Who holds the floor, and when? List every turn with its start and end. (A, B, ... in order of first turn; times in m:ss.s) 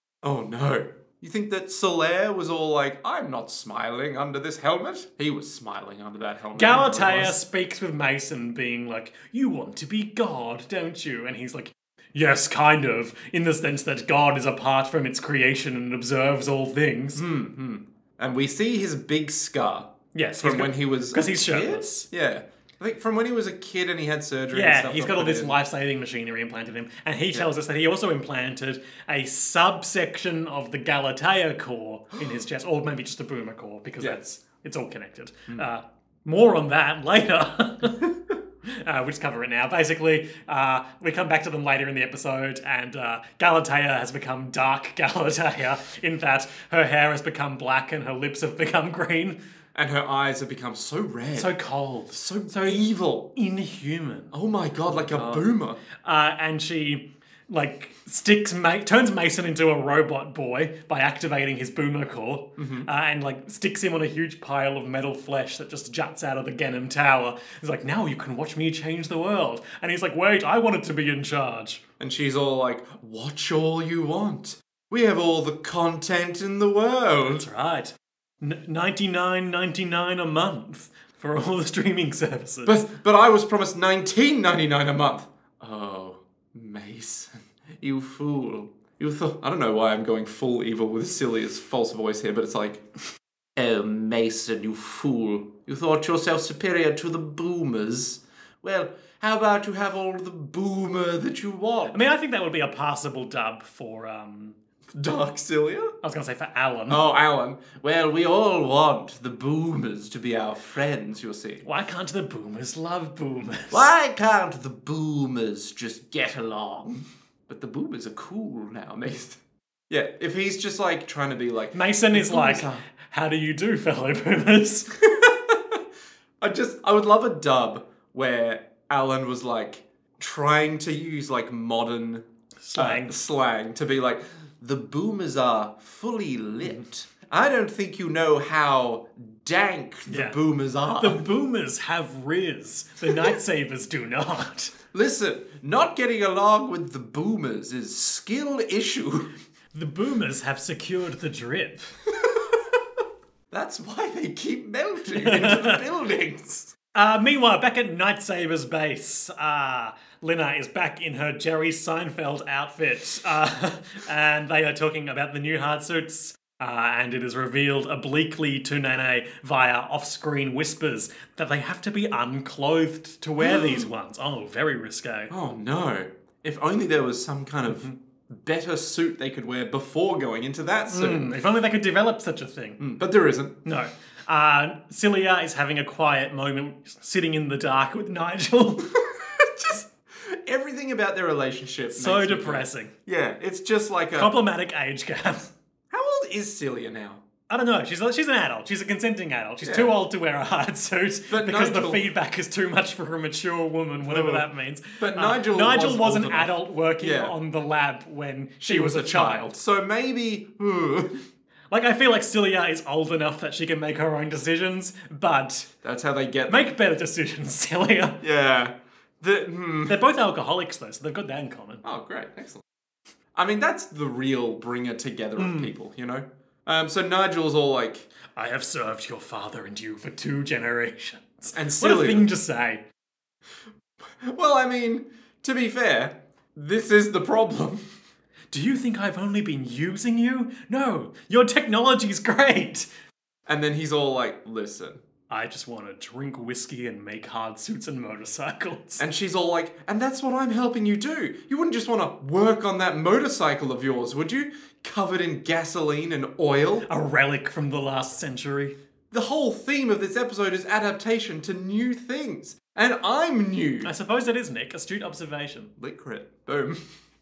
0:00.2-0:07.4 A
0:06.5-0:17.2 B
0:17.2-0:25.6 A
0:20.1-0:22.1 B
0:24.5-0:38.1 B
0:38.6-0:49.4 B
0:49.7-0:51.5 A
0:51.3-0:52.8 B
0:52.1-0:53.3 A
0:53.3-0:54.3 B
0:54.3-0:55.8 A
0:54.9-0:55.4 B
0:56.0-1:11.8 B
1:02.6-1:02.9 A
1:12.0-1:17.4 A
1:17.3-1:22.8 B
1:22.6-1:32.8 A
1:33.6-1:42.0 A
1:41.9-1:44.6 B
1:44.9-1:45.9 A
1:46.0-1:47.0 B
1:46.9-1:51.6 A
1:51.6-1:53.9 B
1:53.7-2:02.8 A
2:01.7-2:04.9 B
2:05.0-2:05.8 A
2:06.4-2:21.2 A
2:12.6-2:13.1 B
2:20.1-2:20.4 B
2:21.0-2:24.7 B
2:24.9-2:29.3 A
2:29.7-2:31.9 B
2:33.5-2:36.7 A
2:35.1-2:35.8 B
2:36.9-2:55.3 B
2:53.4-2:53.9 A
2:55.3-3:01.3 A
2:57.7-2:57.9 B
3:00.9-3:02.8 B
3:02.8-3:03.6 A
3:03.6-3:08.9 B
3:08.9-3:14.3 A
3:11.9-3:12.9 B
3:14.1-3:15.5 B
3:15.9-3:17.2 A
3:17.5-3:29.5 B
3:19.6-3:19.9 A
3:21.3-3:22.0 A
3:24.0-3:24.5 A
3:25.0-3:27.3 A
3:28.6-3:31.2 A
3:31.7-3:35.7 B
3:35.8-3:36.7 A
3:36.5-3:38.2 B
3:38.2-3:40.0 A
3:39.9-3:41.8 B
3:41.8-3:42.6 A
3:43.3-3:48.1 A
3:45.4-3:45.7 B
3:48.3-3:52.8 B
3:51.5-3:52.3 A
3:54.1-3:57.8 A
3:58.5-4:02.9 B
4:03.5-4:05.0 A
4:05.3-4:09.0 B
4:09.0-4:16.9 A
4:16.9-4:18.7 B
4:19.1-4:23.9 A
4:23.8-4:25.7 B
4:25.8-4:26.8 A